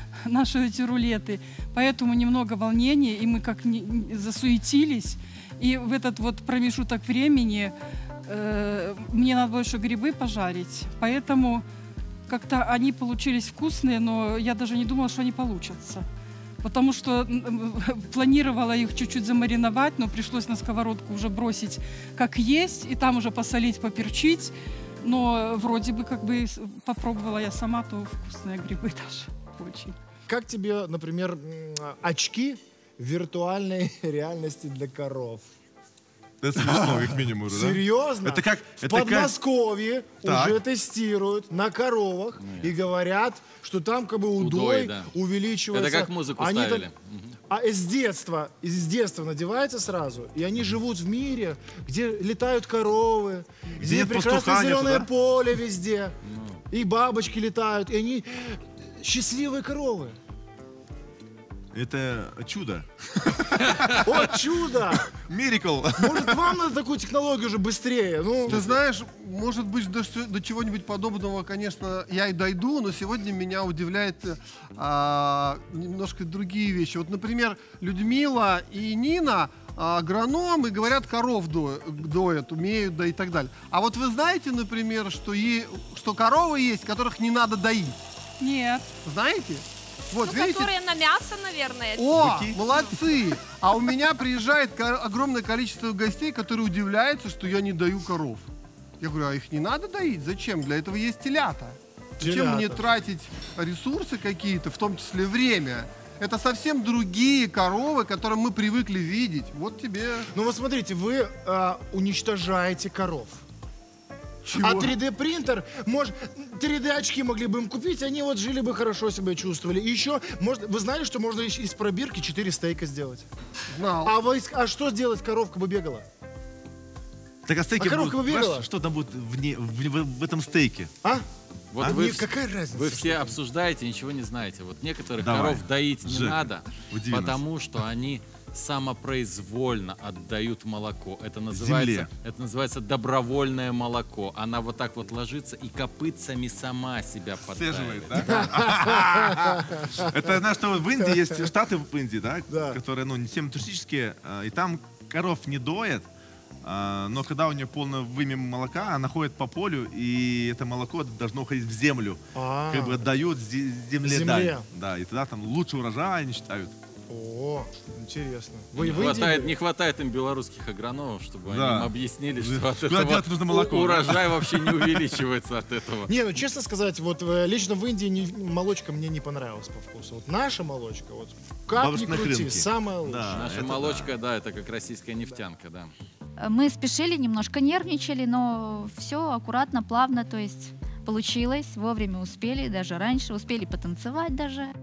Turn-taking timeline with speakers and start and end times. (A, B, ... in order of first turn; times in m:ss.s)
0:00.2-0:07.7 A
0:08.3-0:11.6 A
0:12.3-0:16.0 A
0:16.6-0:30.0 A
0:30.3-0:35.4 B
0:36.4-0:39.4 C
0:36.7-0:46.9 B
0:40.2-0:40.6 C
0:42.4-0:42.8 D
0:44.4-0:45.1 D
0:45.7-0:47.4 D
0:47.5-0:56.2 B
0:53.8-0:55.1 C
0:56.2-0:56.6 D
0:56.7-1:00.2 B
1:01.7-1:04.3 C
1:04.0-1:05.1 B
1:05.2-1:06.6 C
1:06.0-1:08.8 B
1:08.5-1:28.0 E
1:28.4-1:28.9 A
1:29.0-1:30.8 E
1:30.2-1:32.9 F
1:32.0-1:38.5 E
1:32.2-1:32.6 C
1:39.0-1:50.3 E
1:42.2-1:42.9 B
1:50.3-1:53.4 B
1:54.4-1:55.0 E
1:54.6-2:03.3 B
2:03.7-2:04.1 E
2:04.0-2:06.1 B
2:07.5-2:10.9 C
2:07.8-2:08.7 B
2:11.7-2:28.4 D
2:11.8-2:12.1 C
2:11.8-2:13.4 B
2:15.2-2:17.4 C
2:21.5-2:22.1 C
2:27.5-2:36.1 C
2:28.2-2:30.3 B
2:32.5-2:32.8 B
2:36.6-2:46.7 C
2:42.4-2:43.0 B
2:44.0-2:44.6 B
2:47.1-2:49.6 B
2:48.7-2:56.1 D
2:51.5-2:55.2 C
2:56.1-3:03.5 B
3:01.7-3:04.1 C
3:03.3-3:05.9 D
3:06.4-3:14.7 G